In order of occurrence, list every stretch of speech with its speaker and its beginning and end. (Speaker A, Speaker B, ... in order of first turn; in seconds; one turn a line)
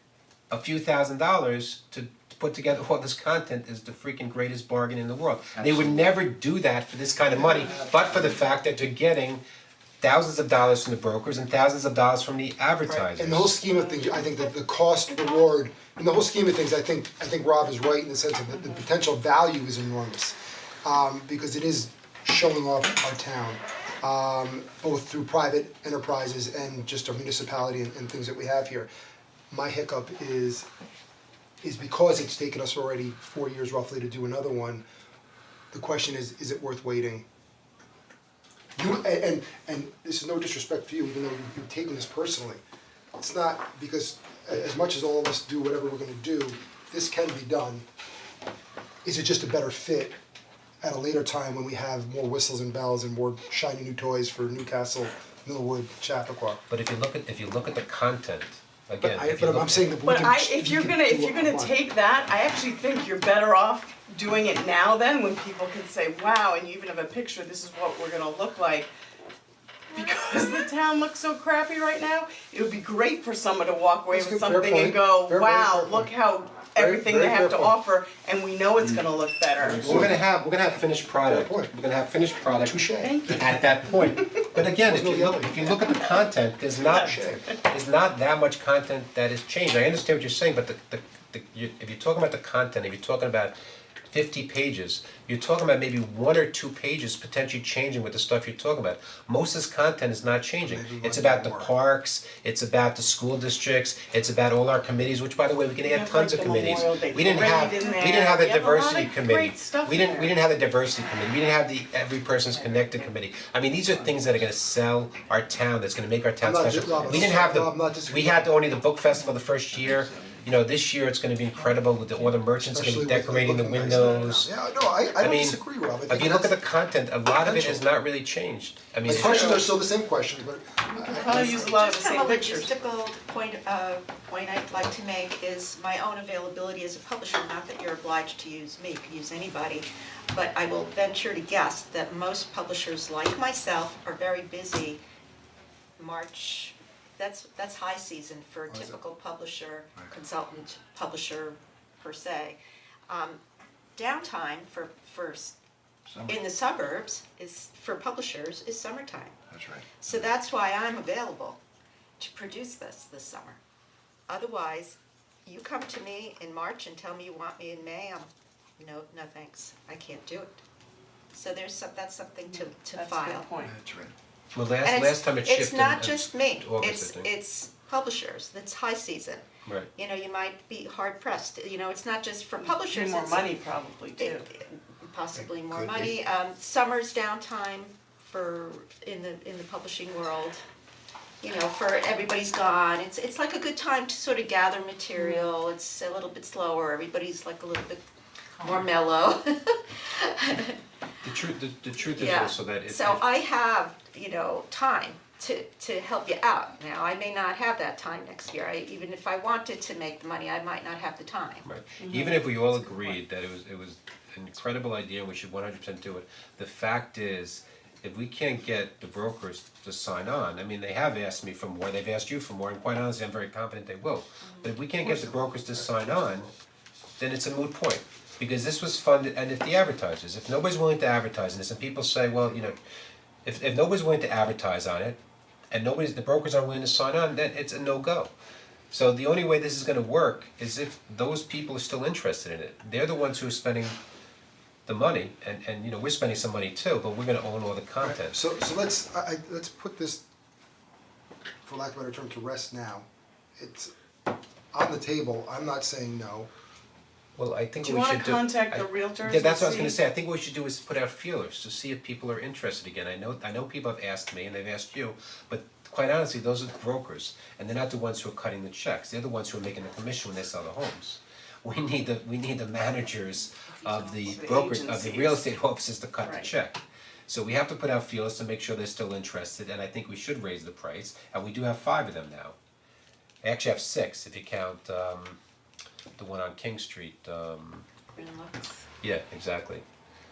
Speaker A: 0.5-9.4
Speaker B: 5.6-6.0
Speaker B: 7.7-8.3
Speaker A: 10.0-13.5
Speaker C: 13.0-28.9
Speaker D: 18.5-18.8
Speaker C: 29.5-30.7
Speaker C: 31.6-34.8
Speaker C: 35.7-37.2
Speaker C: 38.8-42.6
Speaker C: 43.2-47.9
Speaker C: 49.0-50.2
Speaker C: 50.8-56.6
Speaker A: 56.7-59.9
Speaker C: 59.0-61.8
Speaker D: 60.0-68.9
Speaker D: 69.9-80.0
Speaker C: 74.1-76.1
Speaker C: 76.8-77.8
Speaker A: 79.6-93.6
Speaker C: 79.8-80.2
Speaker C: 81.2-81.7
Speaker C: 82.6-83.7
Speaker D: 83.0-84.3
Speaker C: 84.5-86.0
Speaker D: 86.8-87.5
Speaker C: 86.9-87.4
Speaker A: 94.1-124.5
Speaker C: 100.6-101.7
Speaker D: 105.8-110.4
Speaker B: 114.0-114.3
Speaker C: 116.4-118.5
Speaker B: 119.7-120.5
Speaker C: 122.6-126.6
Speaker A: 125.2-129.6
Speaker C: 127.4-127.8
Speaker C: 129.1-131.7
Speaker D: 129.1-129.6
Speaker D: 131.0-132.7
Speaker E: 131.0-145.0
Speaker E: 146.0-152.6
Speaker C: 148.7-149.0
Speaker E: 153.1-153.4
Speaker E: 154.0-155.6
Speaker B: 156.1-156.4
Speaker E: 156.3-159.4
Speaker B: 159.5-160.3
Speaker E: 160.0-161.6
Speaker E: 162.2-163.6
Speaker E: 164.3-170.6
Speaker E: 171.3-173.5
Speaker D: 172.4-173.8
Speaker B: 173.7-174.1
Speaker A: 174.5-177.3
Speaker E: 174.8-183.5
Speaker D: 182.6-184.5
Speaker E: 184.2-190.6
Speaker B: 185.7-186.1
Speaker E: 191.4-198.0
Speaker D: 195.2-195.5
Speaker E: 198.6-200.8
Speaker A: 201.2-203.2
Speaker E: 202.1-211.7
Speaker A: 211.6-226.5
Speaker D: 212.0-213.2
Speaker E: 224.4-224.7
Speaker A: 227.2-232.8
Speaker A: 233.4-235.2
Speaker A: 235.7-238.3
Speaker A: 238.9-244.0
Speaker A: 244.9-248.4
Speaker C: 248.0-250.2
Speaker C: 251.6-253.9
Speaker C: 254.7-256.5
Speaker A: 257.4-282.6
Speaker D: 257.8-260.0
Speaker D: 273.8-275.4
Speaker D: 276.2-276.5
Speaker A: 283.4-285.4
Speaker A: 286.2-287.9
Speaker E: 288.1-288.9
Speaker A: 289.0-289.8